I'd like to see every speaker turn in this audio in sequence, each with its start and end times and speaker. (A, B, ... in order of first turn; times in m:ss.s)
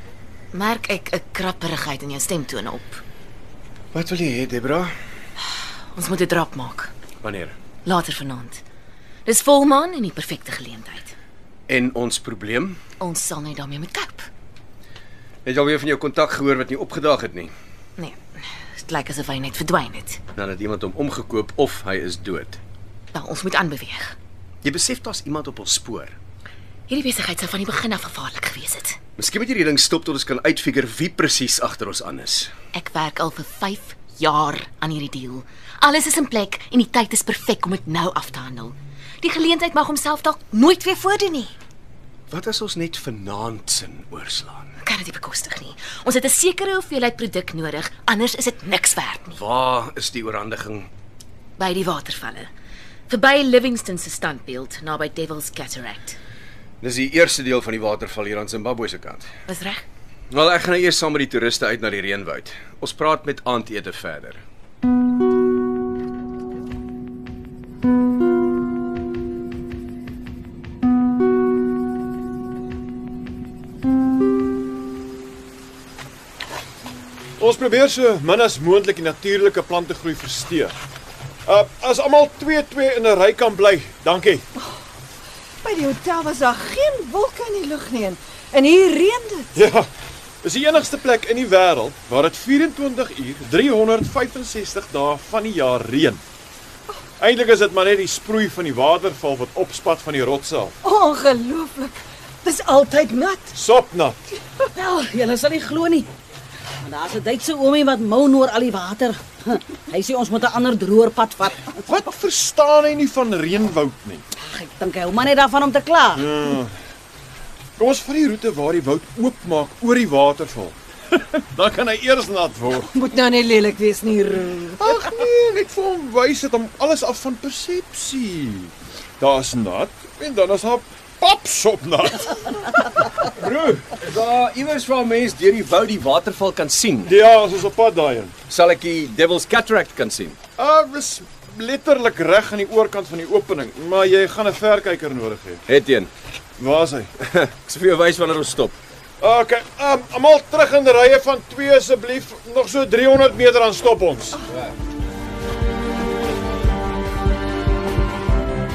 0:00.5-0:03.0 A
0:03.9-0:04.9 B
0:05.9-0:06.9 A
0:07.2-0:07.6 B
0:07.8-0:08.6 A
0:09.3-0:11.1 A
0:11.7-0:12.8 B
0:13.0-0:14.3 A
0:15.4-0:17.5 B
0:18.8-0:20.2 A
0:20.4-0:22.6 B
0:23.1-0:24.2 A
0:24.6-0:26.2 B
0:26.9-0:29.0 A
0:29.2-0:32.5 B
0:32.7-0:41.5 A
0:42.3-0:44.7 B
0:44.8-0:49.4 A
0:49.4-0:50.9 B
0:51.6-0:52.5 A
0:53.1-0:56.2 A
0:56.8-0:59.3 B
0:59.5-0:59.8 A
1:00.3-1:04.4 B
1:17.4-1:20.8 C
1:21.5-1:24.5 C
1:25.6-1:29.6 D
1:29.6-1:29.9 C
1:30.4-1:36.2 C
1:37.2-1:40.8 C
1:40.8-1:43.5 D
1:43.6-1:44.2 C
1:44.7-1:46.1 E
1:46.8-1:51.8 E
1:51.9-1:54.2 C
1:54.6-1:56.3 E
1:56.2-1:56.7 C
1:57.8-2:02.9 C
2:02.9-2:05.1 D
2:04.8-2:13.9 C
2:14.0-2:17.2 B
2:17.0-2:18.4 C
2:18.5-2:20.4 B
2:20.6-2:25.6 C
2:25.7-2:26.1 B
2:26.6-2:27.1 C
2:27.2-2:28.8 B
2:29.2-2:34.4 C